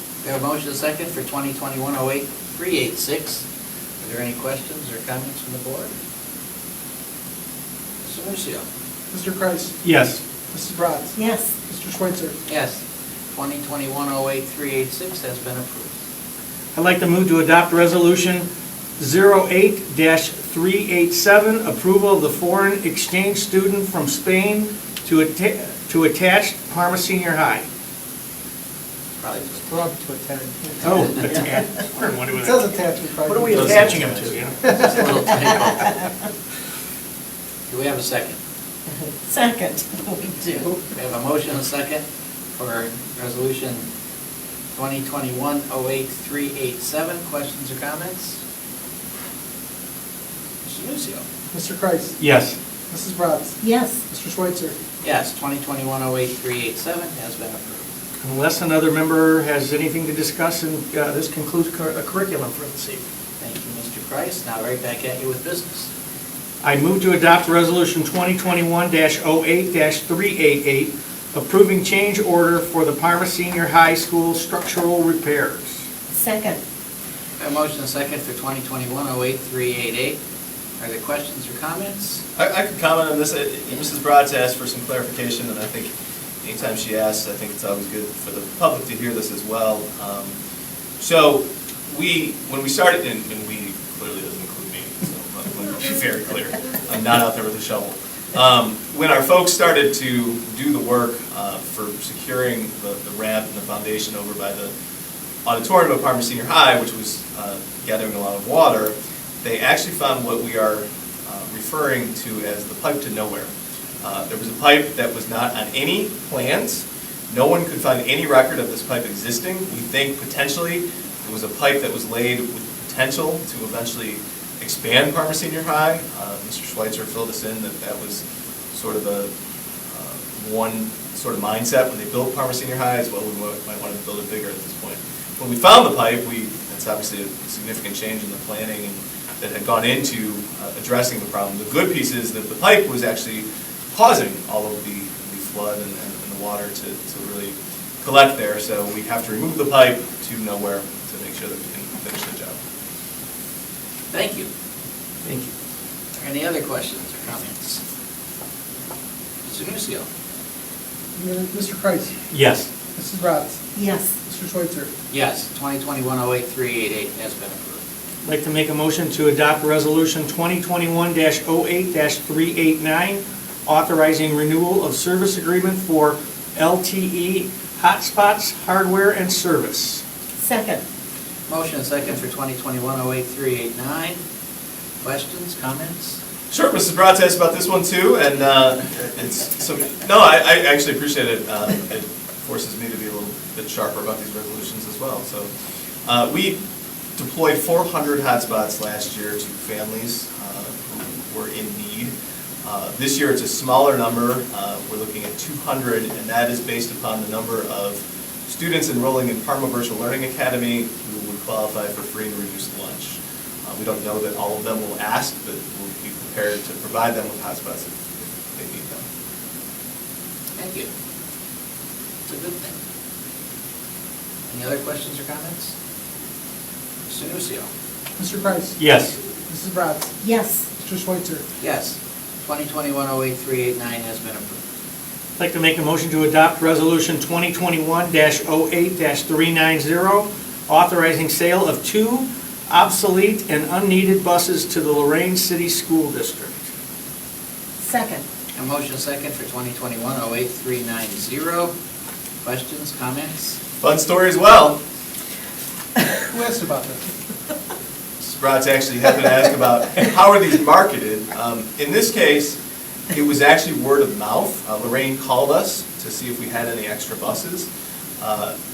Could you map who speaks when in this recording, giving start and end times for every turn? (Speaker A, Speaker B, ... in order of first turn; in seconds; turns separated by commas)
Speaker A: 0.2-3.4, Speaker A: 4.0-5.9, Speaker A: 8.0-8.7, Speaker B: 9.1-9.8, Speaker C: 9.8-10.2, Speaker B: 10.5-12.4, Speaker D: 11.2-11.6, Speaker A: 12.5-12.8, Speaker A: 13.3-15.9, Speaker C: 16.8-18.5, Speaker C: 19.0-27.7, Speaker A: 29.2-29.6, Speaker B: 29.5-31.3, Speaker C: 30.8-32.7, Speaker B: 32.3-34.0, Speaker C: 33.2-34.6, Speaker E: 33.5-34.4, Speaker B: 34.6-34.9, Speaker A: 34.8-36.0, Speaker A: 37.7-38.4, Speaker D: 39.2-40.8, Speaker A: 40.9-43.9, Speaker A: 44.8-48.4, Speaker A: 50.6-51.2, Speaker B: 51.5-52.2, Speaker C: 52.2-52.6, Speaker B: 52.9-54.8, Speaker D: 53.6-54.0, Speaker A: 55.0-57.9, Speaker C: 58.2-63.0, Speaker A: 63.4-65.9, Speaker C: 66.6-75.8, Speaker D: 76.1-76.6, Speaker A: 77.4-80.2, Speaker A: 80.8-82.2, Speaker E: 82.4-85.9, Speaker E: 86.4-90.4, Speaker E: 91.0-104.7, Speaker E: 105.5-113.5, Speaker E: 114.0-129.3, Speaker E: 129.9-152.6, Speaker A: 154.1-154.5, Speaker C: 155.2-155.5, Speaker A: 156.2-157.8, Speaker A: 159.5-160.1, Speaker B: 161.2-162.1, Speaker C: 162.3-162.7, Speaker B: 162.9-163.7, Speaker D: 163.8-164.2, Speaker B: 164.2-164.9, Speaker A: 165.1-167.8, Speaker C: 168.2-180.0, Speaker D: 180.4-180.8, Speaker A: 181.5-184.2, Speaker A: 185.0-186.2, Speaker E: 186.5-195.5, Speaker E: 196.1-196.6, Speaker E: 197.2-202.1, Speaker E: 202.6-219.0, Speaker A: 220.6-220.9, Speaker A: 222.3-222.8, Speaker A: 224.5-225.7, Speaker A: 227.1-227.7, Speaker B: 228.2-228.8, Speaker C: 228.8-229.2, Speaker B: 229.5-230.2, Speaker D: 230.2-230.7, Speaker B: 230.8-231.4, Speaker A: 231.6-234.6, Speaker C: 235.4-246.7, Speaker D: 247.8-248.2, Speaker A: 248.6-251.7, Speaker A: 252.4-253.6, Speaker E: 253.8-254.8, Speaker B: 256.2-257.1, Speaker E: 258.2-262.6, Speaker E: 263.1-267.7, Speaker E: 268.2-268.5